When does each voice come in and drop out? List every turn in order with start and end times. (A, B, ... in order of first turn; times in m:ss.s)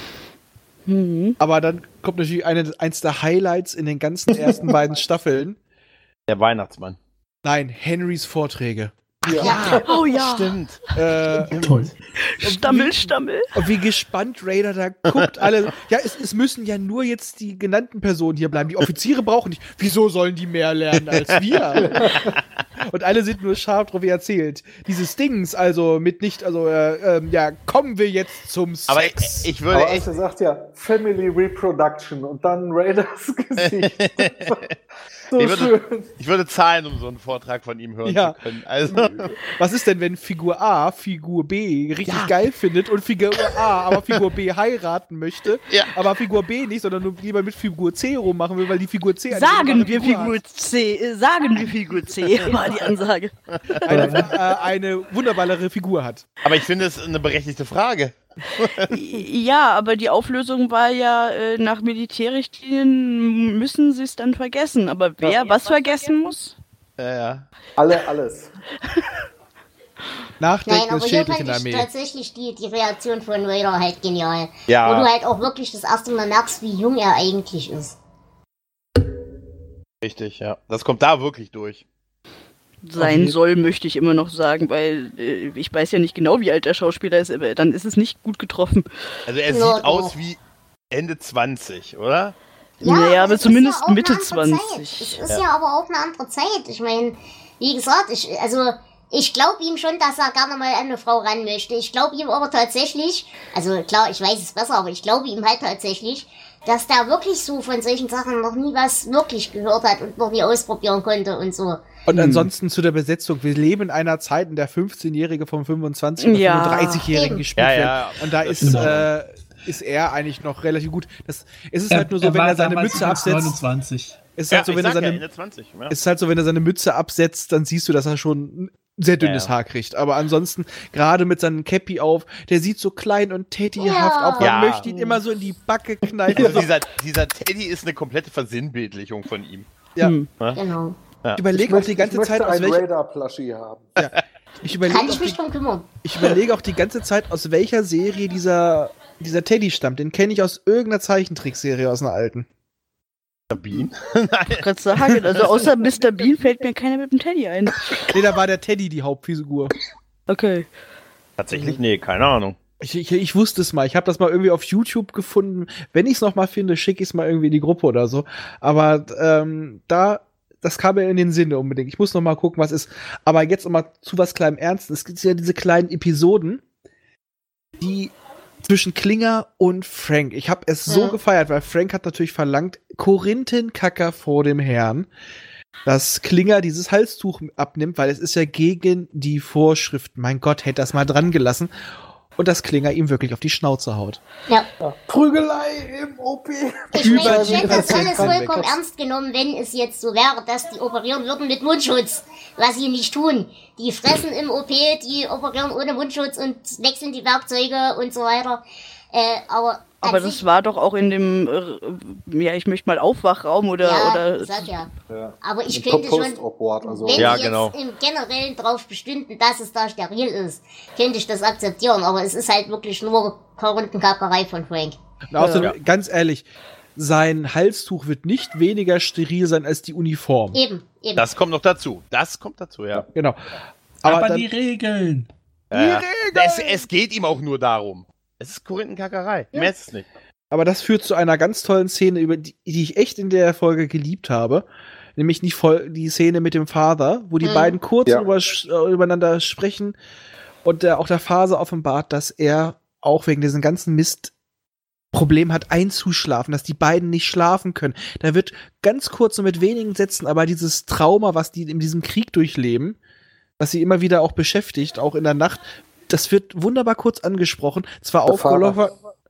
0:00.8-0:01.4 A
0:01.4-0:05.6 B
0:06.3-0:07.0 C
0:07.4-0:09.6 B
0:09.2-0:09.8 D
0:09.4-0:10.8 C
0:09.4-0:09.7 E
0:09.8-0:10.6 A
0:10.9-0:11.5 B
0:11.5-0:11.9 C
0:11.6-0:11.9 F
0:12.2-0:13.5 A
0:12.4-0:22.0 B
0:21.1-0:22.0 C
0:21.8-0:22.4 D
0:22.8-0:29.5 B
0:28.9-0:30.1 C
0:29.7-0:34.7 D
0:33.6-0:34.7 C
0:35.3-0:36.1 D
0:35.3-0:39.4 C
0:38.0-0:38.4 B
0:38.9-0:50.4 B
0:42.0-0:42.3 C
0:45.7-0:45.9 C
0:49.3-0:53.3 A
0:53.7-0:54.2 C
0:53.8-0:56.2 B
0:53.9-0:54.3 D
0:56.4-0:58.9 C
0:58.9-1:06.5 A
1:07.0-1:07.4 C
1:07.8-1:08.5 D
1:10.4-1:11.9 B
1:10.7-1:18.0 E
1:14.7-1:15.1 C
1:20.0-1:21.8 C
1:22.8-1:28.8 A
1:23.0-1:23.3 B
1:29.3-1:30.4 C
1:29.5-1:30.2 E
1:30.9-1:32.3 C
1:32.8-1:35.2 A
1:32.8-1:51.8 E
1:52.1-2:03.6 B
1:56.2-1:57.1 A
1:57.1-1:57.4 E
1:57.6-1:59.0 C
1:58.6-1:59.0 F
2:01.9-2:04.3 F
2:04.4-2:05.2 B
2:04.5-2:05.9 C
2:05.9-2:16.7 B
2:09.2-2:09.5 C
2:13.8-2:14.6 E
2:14.4-2:14.9 C
2:16.3-2:19.7 C
2:16.3-2:16.6 D
2:20.0-2:20.3 A
2:20.5-2:21.0 E
2:21.4-2:22.8 B
2:21.5-2:24.0 D
2:24.0-2:25.4 B
2:24.8-2:25.9 E
2:26.0-2:32.5 B
2:33.5-2:35.5 C
2:34.5-2:38.1 A
2:38.1-2:39.7 B
2:40.3-2:40.7 A
2:41.4-2:42.6 C
2:42.8-2:56.6 B
2:57.8-2:58.1 B
2:58.6-3:05.1 B
3:00.9-3:01.2 E
3:05.8-3:11.7 B
3:12.4-3:14.2 B
3:14.8-3:18.8 D
3:16.9-3:30.4 E
3:17.0-3:18.7 B
3:30.0-3:34.8 A
3:33.8-3:34.9 E
3:35.1-3:37.4 D
3:35.4-3:45.0 E
3:37.2-3:37.7 C
3:45.3-3:50.6 B
3:45.4-3:45.7 A
3:50.5-3:51.3 E
3:51.2-3:53.0 C
3:54.0-3:55.3 F
3:54.0-3:54.5 B
3:55.7-4:00.1 C
3:55.7-3:56.8 B
4:00.5-4:10.0 B
4:07.4-4:07.8 E
4:10.6-4:14.3 B
4:15.1-4:23.0 B
4:23.6-4:28.9 B
4:28.2-4:28.8 D